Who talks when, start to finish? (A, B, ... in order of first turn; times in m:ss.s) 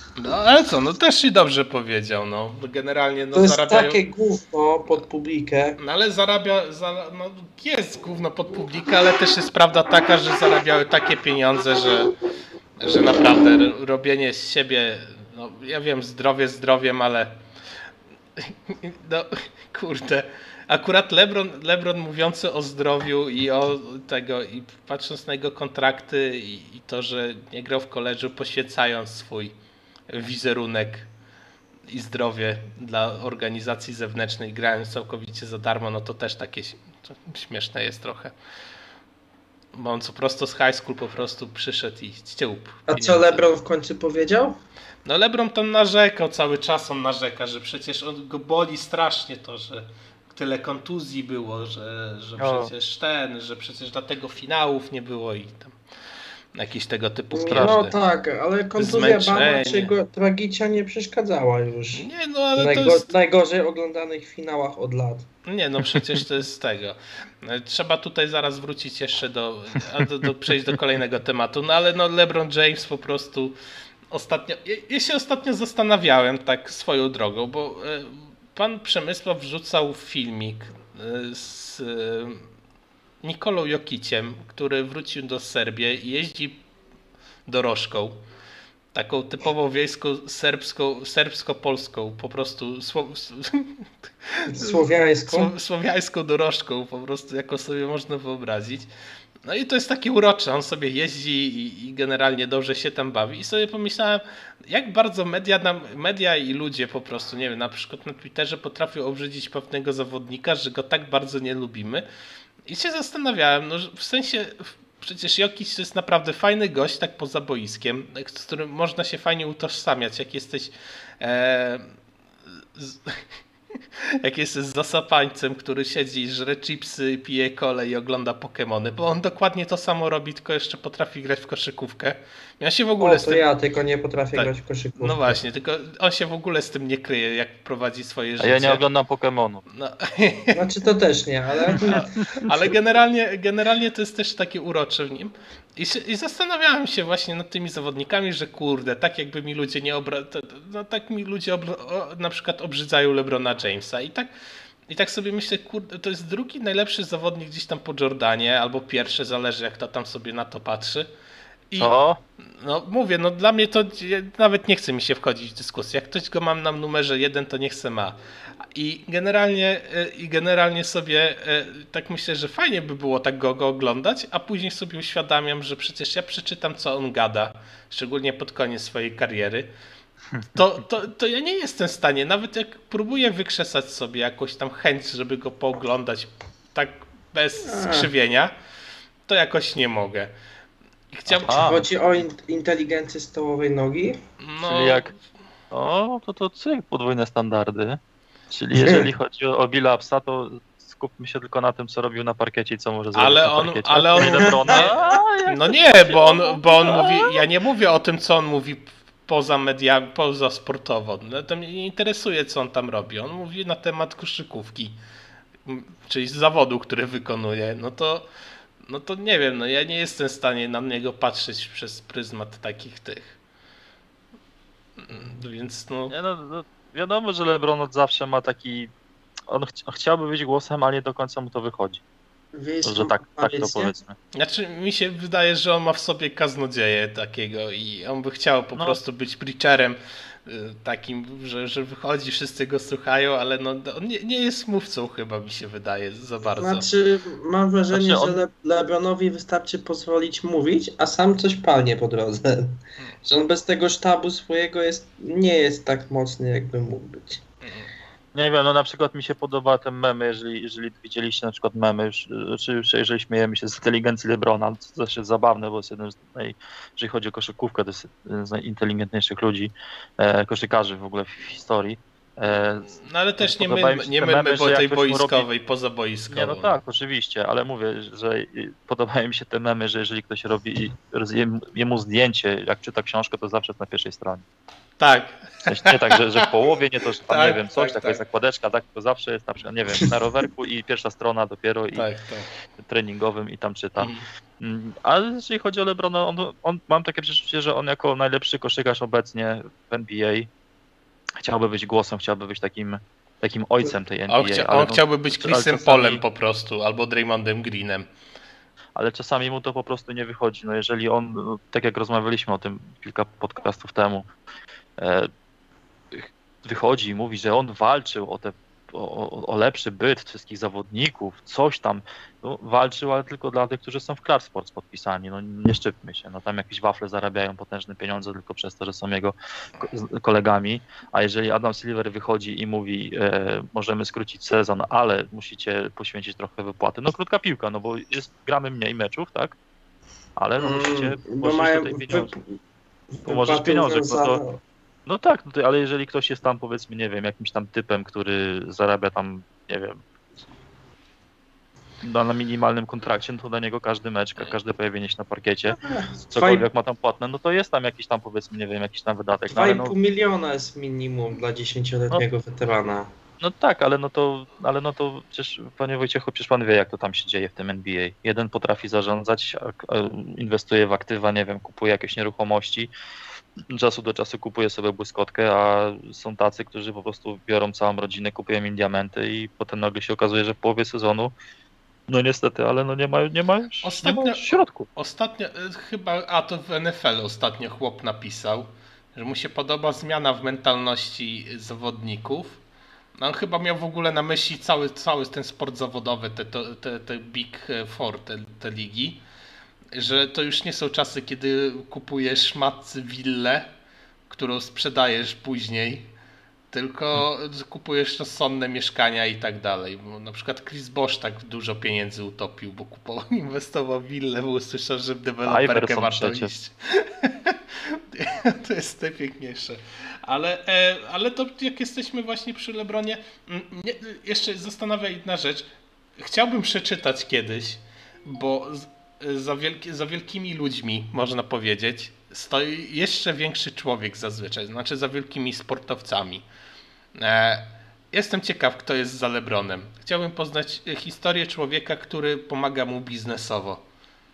0:00.2-0:04.0 A
0:03.3-0:05.8 B
0:05.8-0:12.1 A
0:12.8-0:17.4 A
0:18.4-0:29.6 A
0:30.1-0:31.1 A
0:31.9-0:38.3 A
0:39.7-0:43.4 A
0:42.9-0:44.6 B
0:45.0-0:55.8 A
0:52.4-0:52.7 C
0:56.5-0:57.9 A
0:57.3-1:02.0 B
0:57.5-0:57.8 C
0:58.8-0:59.9 A
1:01.9-1:03.1 A
1:02.6-1:05.3 B
1:05.4-1:13.6 A
1:05.9-1:06.2 C
1:14.1-1:22.5 A
1:23.2-1:26.6 A
1:27.4-1:28.2 A
1:28.9-1:34.8 A
1:34.5-1:35.5 B
1:35.3-1:38.9 A
1:39.4-1:52.0 A
1:52.6-2:01.9 A
2:02.7-2:03.3 A
2:04.2-2:13.4 A
2:13.0-2:15.4 B
2:14.3-2:18.8 A
2:18.4-2:19.6 C
2:19.7-2:20.6 A
2:20.5-2:22.7 B
2:21.7-2:34.3 A
2:34.9-2:41.1 A
2:41.8-2:42.2 C
2:42.4-2:48.2 A
2:48.7-2:59.7 A
3:00.5-3:08.5 A
3:07.6-3:08.1 B
3:09.3-3:10.3 A
3:11.1-3:11.8 A
3:11.3-3:11.8 C
3:11.5-3:14.2 B
3:14.4-3:15.1 A
3:14.6-3:15.1 C
3:15.7-3:27.4 C
3:18.8-3:19.1 B
3:23.1-3:35.0 A
3:24.2-3:24.9 B
3:35.6-3:38.3 A
3:38.8-3:43.4 A
3:45.0-3:46.1 A
3:46.1-3:48.9 C
3:49.5-3:52.0 C
3:52.5-3:54.0 B
3:52.8-3:54.2 C
3:54.3-4:06.8 A
4:06.6-4:17.4 B
4:07.9-4:08.4 C
4:13.0-4:13.3 A
4:17.6-4:17.9 A
4:18.3-4:35.5 C
4:32.9-4:36.8 A
4:36.3-4:44.4 C
4:45.0-4:46.5 A
4:45.7-4:52.1 C
4:47.3-4:48.2 A
4:51.9-4:52.5 A
4:52.8-5:00.5 C
4:54.0-4:54.2 A
5:01.4-5:06.2 C
5:04.3-5:08.0 A
5:09.0-5:14.3 C
5:15.0-5:15.3 C
5:16.1-5:39.6 C
5:40.4-5:42.3 C
5:40.6-5:42.4 B
5:43.1-5:44.6 B
5:43.2-5:44.4 C
5:45.0-5:50.0 C
5:52.0-5:55.8 C
5:55.7-5:56.6 B
5:56.3-5:59.9 C
5:59.5-6:03.1 B
6:03.4-6:12.9 C
6:13.7-6:21.3 C
6:22.1-6:24.9 C
6:23.8-6:32.6 A
6:33.2-6:39.2 A
6:39.9-6:43.7 A
6:44.3-6:46.1 A
6:46.7-7:16.4 A
6:55.4-6:56.5 C
7:17.1-7:23.8 A